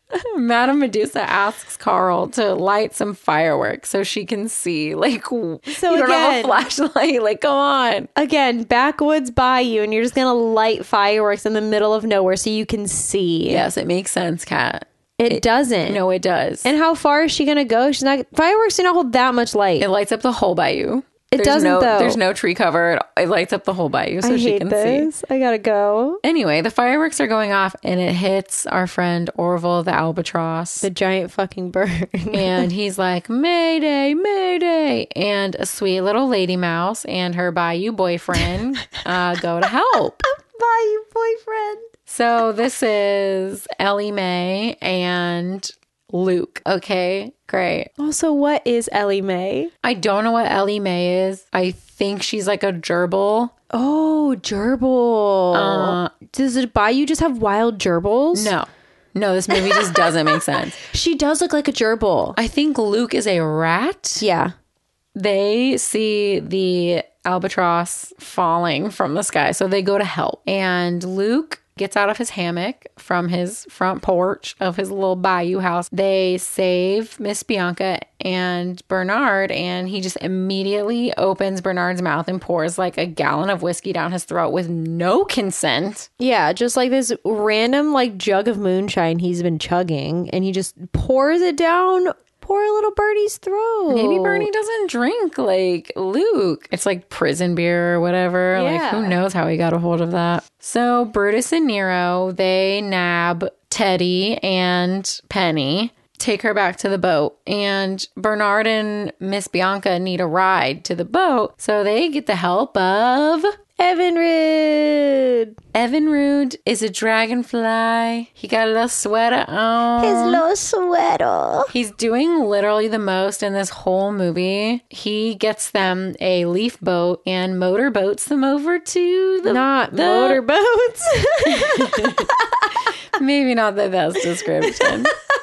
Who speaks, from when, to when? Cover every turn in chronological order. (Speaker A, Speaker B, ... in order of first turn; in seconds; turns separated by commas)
Speaker A: 0.1-8.1, Speaker B: 5.7-6.7, Speaker B: 8.2-13.6, Speaker A: 13.5-16.7, Speaker B: 15.2-16.0, Speaker B: 16.6-19.9, Speaker A: 19.8-25.1, Speaker B: 21.3-22.2, Speaker B: 24.2-26.2, Speaker A: 26.2-30.9, Speaker B: 30.8-32.7, Speaker A: 32.3-40.3, Speaker B: 40.2-41.9, Speaker A: 42.1-47.9, Speaker B: 48.0-49.7, Speaker A: 49.8-53.5, Speaker B: 53.7-58.5, Speaker A: 55.5-56.1, Speaker A: 58.3-60.8, Speaker B: 59.5-62.4, Speaker A: 62.4-64.3, Speaker B: 64.2-64.5, Speaker A: 65.2-86.1, Speaker B: 86.2-94.5, Speaker A: 93.9-113.5, Speaker B: 98.5-99.2, Speaker B: 113.8-115.6, Speaker A: 115.7-120.4, Speaker B: 120.0-121.7, Speaker A: 121.7-130.4, Speaker B: 129.4-132.9, Speaker A: 131.5-132.3, Speaker A: 132.8-135.2, Speaker B: 134.6-135.1